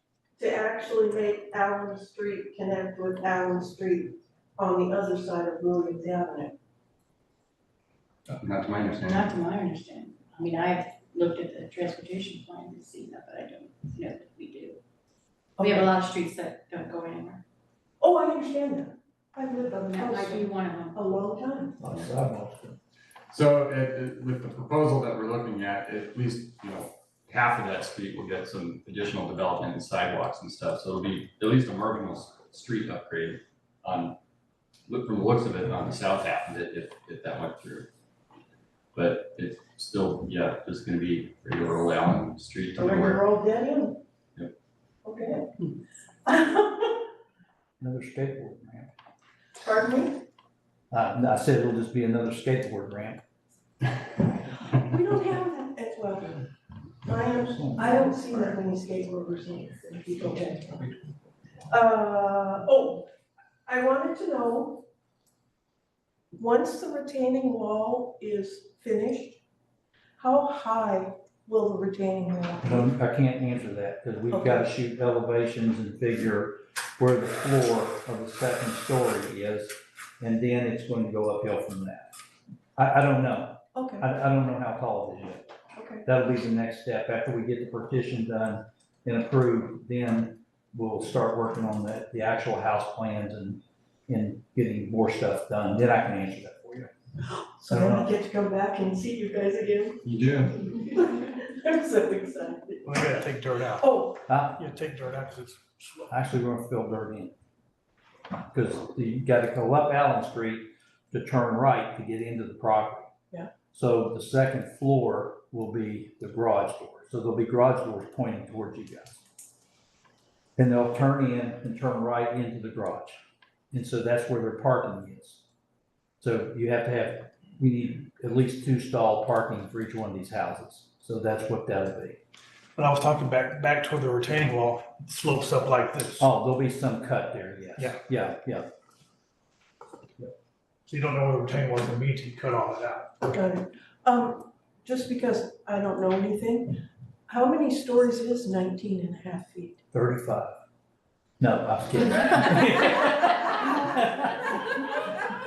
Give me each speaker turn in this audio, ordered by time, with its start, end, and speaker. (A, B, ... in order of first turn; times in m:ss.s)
0:00.4-0:06.5 A
0:08.3-0:09.3 B
0:09.0-0:14.8 C
0:15.6-0:15.9 A
0:15.6-0:17.4 C
0:18.0-0:21.8 A
0:19.9-0:21.1 C
0:21.8-0:22.8 D
0:23.3-0:34.2 B
0:34.9-0:37.9 B
0:38.9-0:43.2 B
0:42.8-0:44.0 A
0:45.0-0:45.5 A
0:46.2-0:47.0 A
0:47.8-0:48.9 D
0:49.6-0:50.2 A
0:50.9-0:53.2 D
0:54.8-0:56.4 A
0:57.0-1:00.9 A
0:57.5-0:57.9 D
1:01.7-1:03.1 A
1:03.7-1:04.8 A
1:06.3-1:09.4 A
1:10.2-1:12.9 A
1:12.6-1:22.1 D
1:14.3-1:14.7 A
1:22.8-1:25.5 D
1:23.7-1:24.1 A
1:25.8-1:26.0 A
1:26.0-1:36.9 D
1:37.6-1:40.0 A
1:37.7-1:38.1 D
1:40.0-1:40.7 B
1:40.6-1:43.2 A
1:42.8-1:43.9 E
1:43.8-1:44.2 A
1:44.3-1:44.6 D
1:44.6-1:46.1 E
1:46.1-1:47.3 D
1:48.5-1:53.1 D
1:53.7-1:59.2 D
2:00.6-2:03.2 D
2:03.7-2:05.4 D
2:06.2-2:12.2 D
2:12.8-2:16.3 E
2:16.2-2:18.7 D
2:20.9-2:23.2 E
2:23.3-2:29.8 A
2:29.9-2:30.6 D
2:31.4-2:34.6 D